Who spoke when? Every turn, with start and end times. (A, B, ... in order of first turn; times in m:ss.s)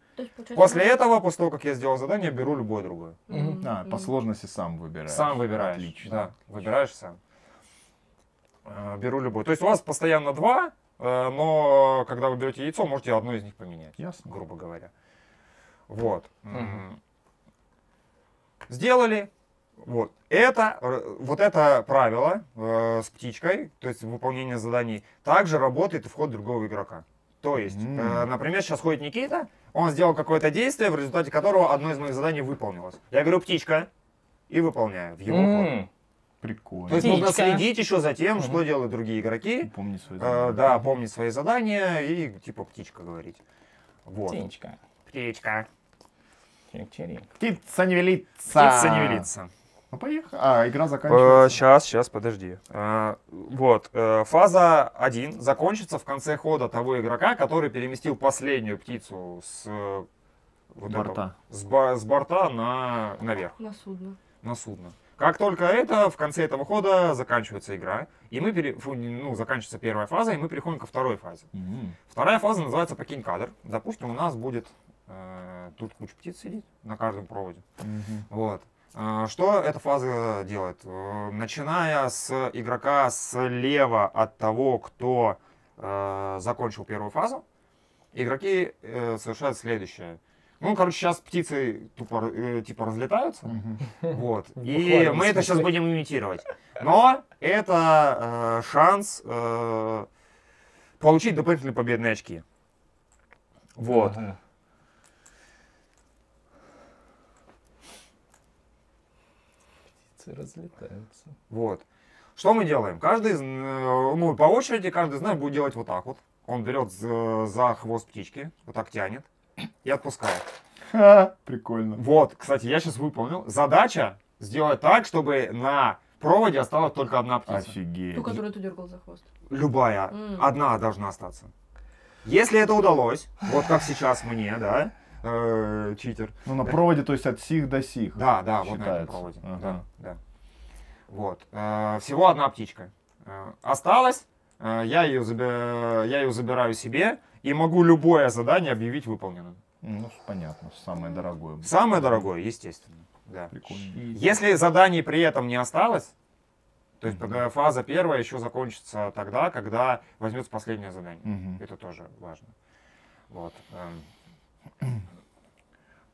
0:00.2-0:01.0 A
0:00.5-0:03.2 B
0:03.3-0:04.1 A
0:03.3-0:03.6 C
0:03.6-0:06.3 D
0:05.1-0:07.2 B
0:08.6-0:14.9 B
0:14.0-0:14.3 D
0:15.9-0:17.0 B
0:16.5-0:16.8 C
0:18.7-0:33.9 B
0:27.6-0:28.3 D
0:34.5-0:35.8 B
0:35.3-0:35.9 C
0:36.4-0:37.3 D
0:36.9-0:43.4 B
0:36.9-0:37.7 C
0:38.4-0:38.6 C
0:39.6-0:40.6 D
0:44.0-0:44.4 B
0:44.3-0:44.8 C
0:45.0-0:45.7 B
0:46.7-0:47.3 C
0:47.4-0:49.3 D
0:48.4-0:49.5 B
0:49.9-0:51.6 D
0:51.0-1:00.1 B
1:00.7-1:03.6 B
1:00.9-1:01.3 D
1:03.6-1:04.2 A
1:04.4-1:11.5 B
1:11.5-1:12.0 D
1:12.1-1:17.6 B
1:17.8-1:18.2 D
1:18.3-1:27.4 B
1:28.1-1:40.1 B
1:33.4-1:33.8 D
1:34.1-1:35.8 C
1:41.0-1:42.4 B
1:43.8-1:44.2 B
1:43.8-1:44.4 C
1:50.2-1:51.3 C
1:51.5-1:51.8 B
1:52.4-1:59.3 B
1:59.8-2:00.5 B
2:00.9-2:02.0 D
2:02.0-2:07.7 B
2:07.5-2:08.4 D
2:08.1-2:09.2 A
2:09.5-2:11.5 B
2:10.1-2:10.5 A
2:12.2-2:16.8 B
2:16.4-2:19.8 D
2:18.2-2:20.2 B
2:21.1-2:29.6 B
2:29.8-2:32.3 D
2:31.6-2:36.1 B
2:33.5-2:34.0 D
2:33.9-2:34.3 C
2:37.0-2:42.5 B
2:37.1-2:37.3 D
2:41.2-2:41.6 D
2:43.3-2:44.1 B